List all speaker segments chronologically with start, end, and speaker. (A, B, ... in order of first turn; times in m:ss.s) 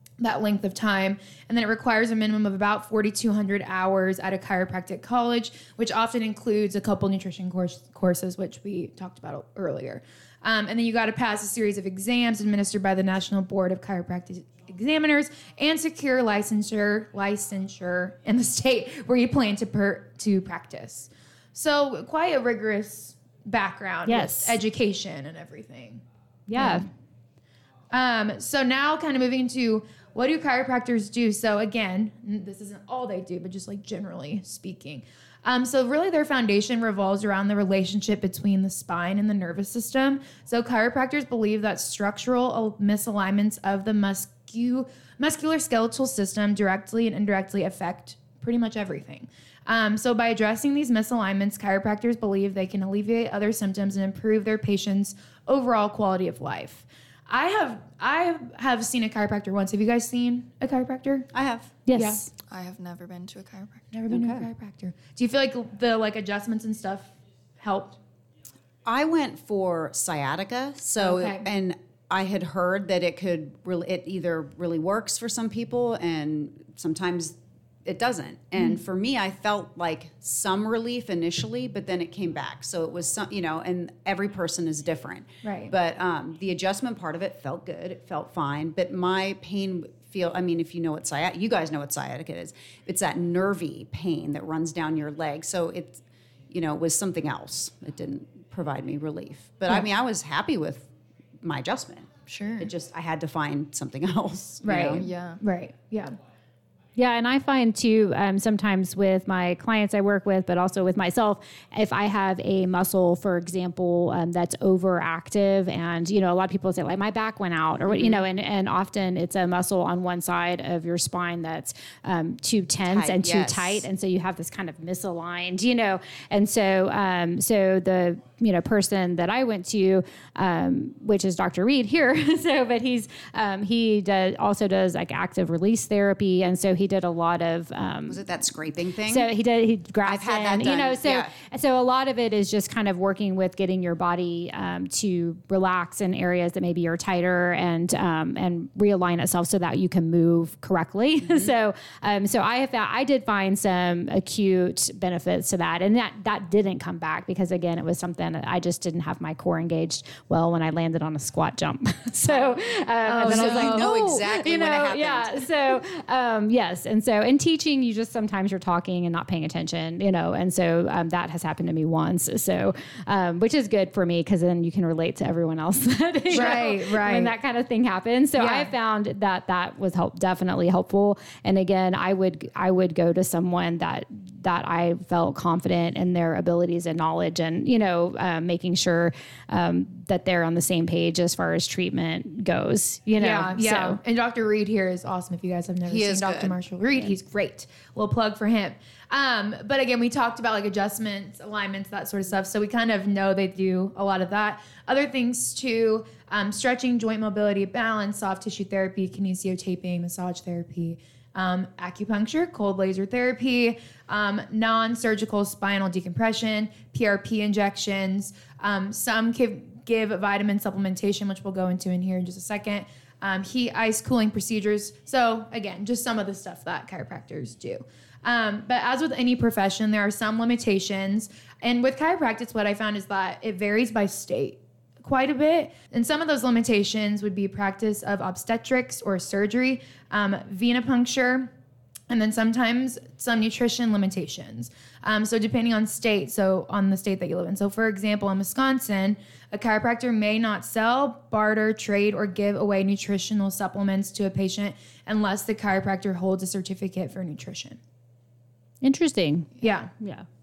0:00.2-0:26.0 A
0:24.1-0:24.6 B
0:26.5-0:26.8 B
0:26.6-0:26.9 A
0:27.9-1:01.3 A
1:01.3-1:01.7 C
1:01.8-1:02.2 B
1:01.9-1:02.3 A
1:02.5-1:03.9 D
1:03.9-1:08.0 A
1:04.1-1:04.5 C
1:08.8-1:40.9 C
1:11.0-1:11.4 A
1:25.4-1:25.7 A
1:41.4-1:45.0 C
1:42.3-1:42.7 D
1:44.6-1:46.1 A
1:44.9-1:45.4 D
1:47.0-2:18.2 B
1:57.9-1:58.2 C
2:02.8-2:03.8 C
2:18.1-2:19.3 C
2:19.1-3:14.0 B
2:20.0-2:21.3 C
2:31.2-2:31.5 C
2:43.0-2:44.0 A
2:43.2-2:45.5 C
2:56.3-2:57.3 A
2:58.4-2:58.7 A
3:13.2-4:01.5 A
3:15.9-3:16.5 C
4:02.1-4:17.8 A
4:18.8-4:20.2 B
4:19.6-4:19.9 A